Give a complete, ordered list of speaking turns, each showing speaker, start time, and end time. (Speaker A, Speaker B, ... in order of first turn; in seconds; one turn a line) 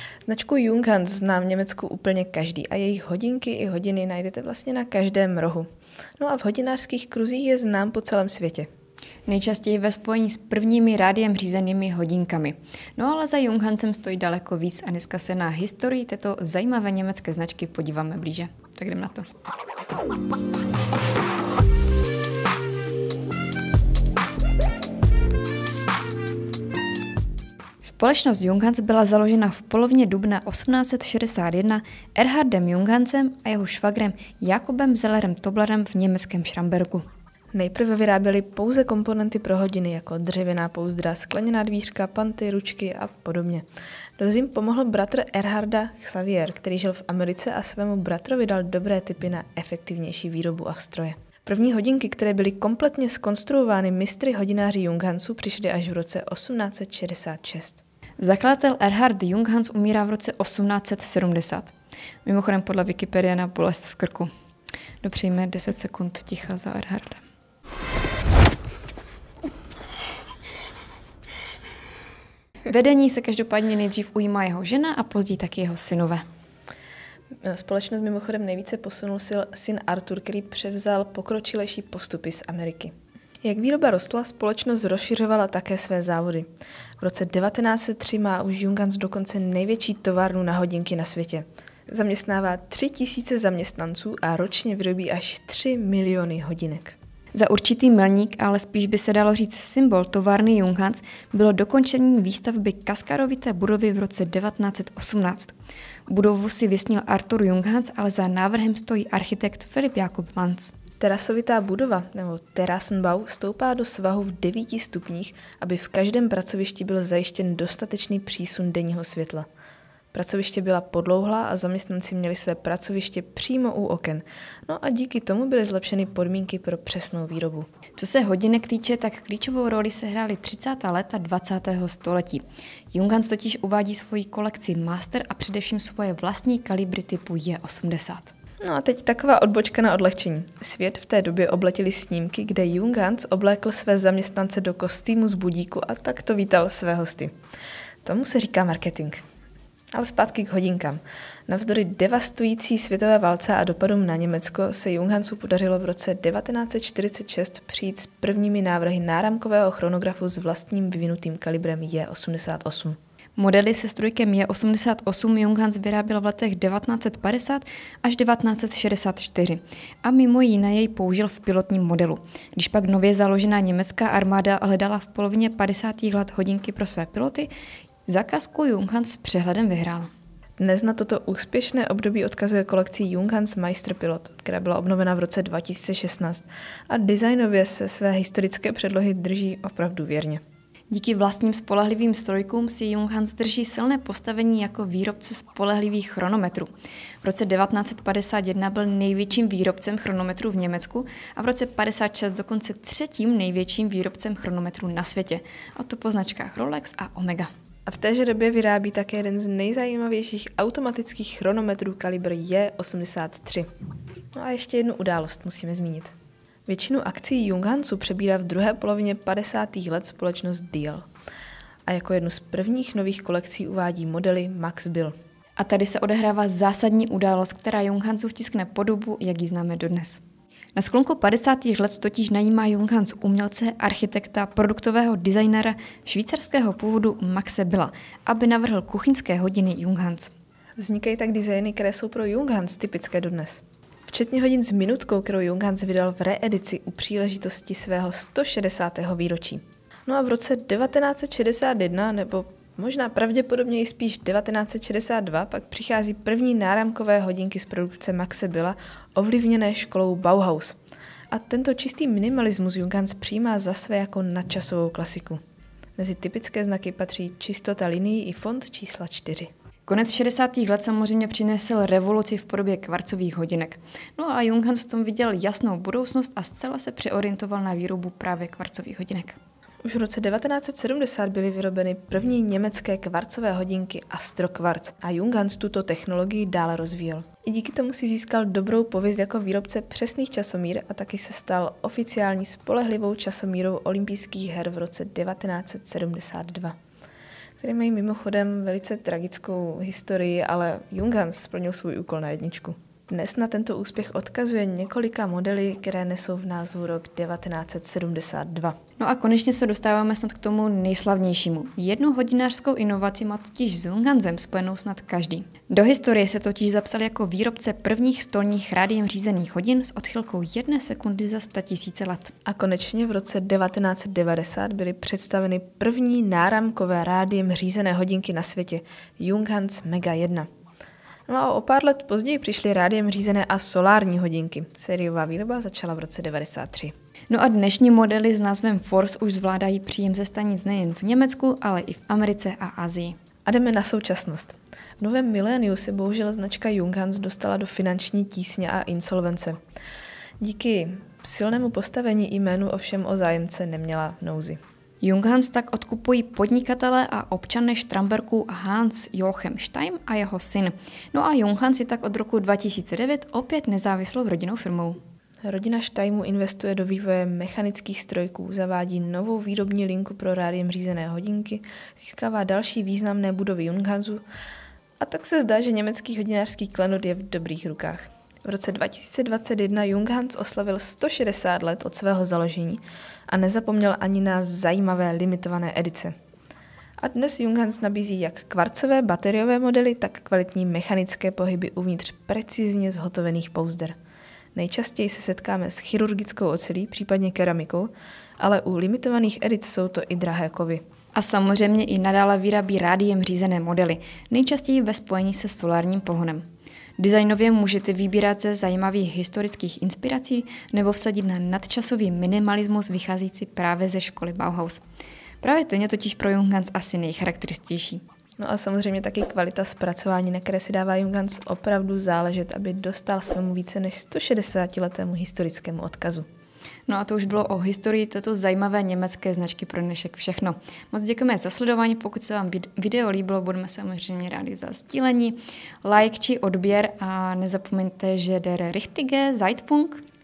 Speaker A: 0.3-5.7
Speaker A: 6.2-8.7
Speaker B: 9.3-19.3
Speaker B: 27.8-37.1
Speaker A: 37.5-43.6
Speaker A: 44.2-57.8
Speaker B: 58.2-61.7
Speaker B: 62.2-64.3
Speaker B: 65.0-67.2
Speaker B: 72.7-76.2
Speaker A: 77.4-86.5
Speaker A: 87.0-97.0
Speaker B: 97.3-105.5
Speaker B: 106.1-110.7
Speaker A: 111.0-119.5
Speaker A: 120.1-127.7
Speaker B: 128.0-138.3
Speaker A: 138.6-147.3
Speaker A: 148.0-149.2
Speaker A: 149.9-163.0
Speaker B: 163.4-177.5
Speaker B: 178.1-180.1
Speaker A: 180.6-190.4
Speaker B: 190.9-196.7
Speaker B: 197.2-207.5
Speaker A: 207.9-213.7
Speaker A: 214.3-216.1
Speaker A: 216.7-221.1
Speaker A: 221.9-225.2
Speaker B: 225.6-230.2
Speaker B: 230.8-240.3
Speaker A: 240.8-260.8
Speaker A: 261.3-265.4
Speaker A: 266.0-269.5
Speaker B: 269.9-279.4
Speaker A: 279.8-296.8
Speaker A: 297.6-308.8
Speaker B: 309.0-322.3
Speaker A: 322.4-330.5
Speaker A: 331.3-336.9
Speaker B: 337.3-343.1
Speaker A: 343.5-349.6
Speaker A: 350.4-354.6
Speaker B: 355.0-365.0
Speaker A: 365.4-374.2
Speaker A: 375.0-386.1
Speaker A: 387.0-394.0
Speaker A: 394.6-400.8
Speaker B: 401.1-406.4
Speaker B: 407.0-414.8
Speaker B: 415.4-418.0
Speaker A: 418.4-426.3
Speaker B: 426.9-440.0